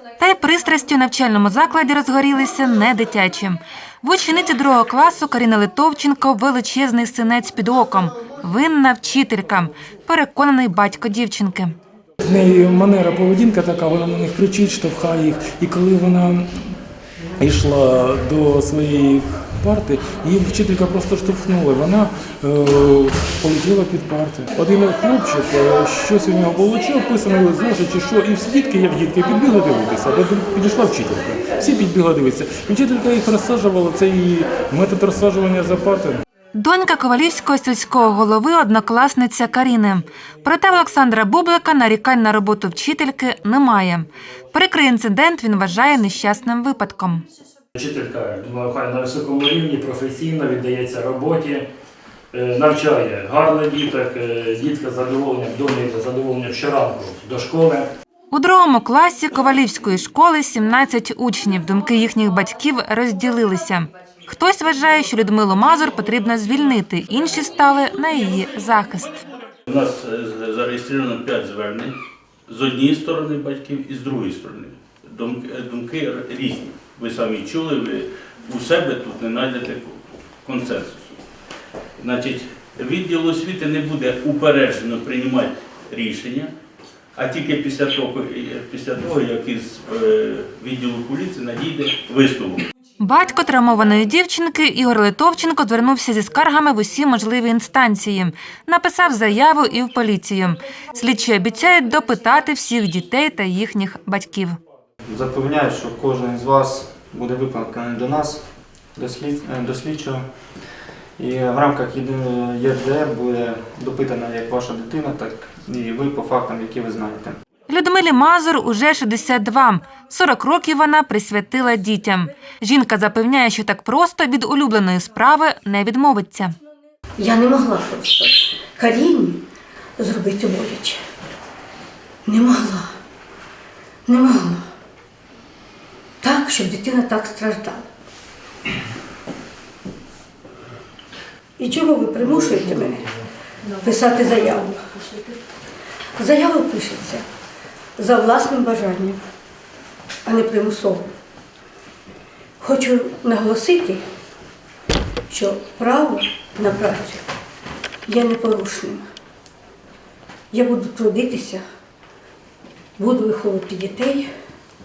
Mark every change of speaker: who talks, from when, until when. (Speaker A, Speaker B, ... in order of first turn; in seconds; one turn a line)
Speaker A: 0.2-11.7
Speaker B: 12.2-16.8
Speaker B: 17.3-36.2
Speaker A: 36.5-47.2
Speaker C: 47.7-51.7
Speaker C: 52.3-57.9
Speaker A: 58.3-69.1
Speaker D: 69.7-71.9
Speaker D: 72.5-81.2
Speaker D: 82.0-86.5
Speaker D: 87.1-92.7
Speaker A: 93.0-104.6
Speaker E: 105.1-108.4
Speaker E: 108.9-110.2
Speaker E: 111.2-117.3
Speaker A: 117.7-126.5
Speaker F: 127.2-129.4
Speaker F: 130.0-131.0
Speaker F: 132.2-132.9
Speaker F: 134.1-134.6
Speaker F: 136.2-137.8
Speaker F: 141.6-143.1
Speaker F: 143.8-144.8
Speaker F: 146.2-147.2
Speaker F: 148.0-149.2
Speaker F: 150.2-151.1
Speaker F: 152.6-154.0
Speaker F: 155.3-157.2
Speaker F: 158.1-159.0
Speaker F: 160.5-161.6
Speaker F: 163.0-164.3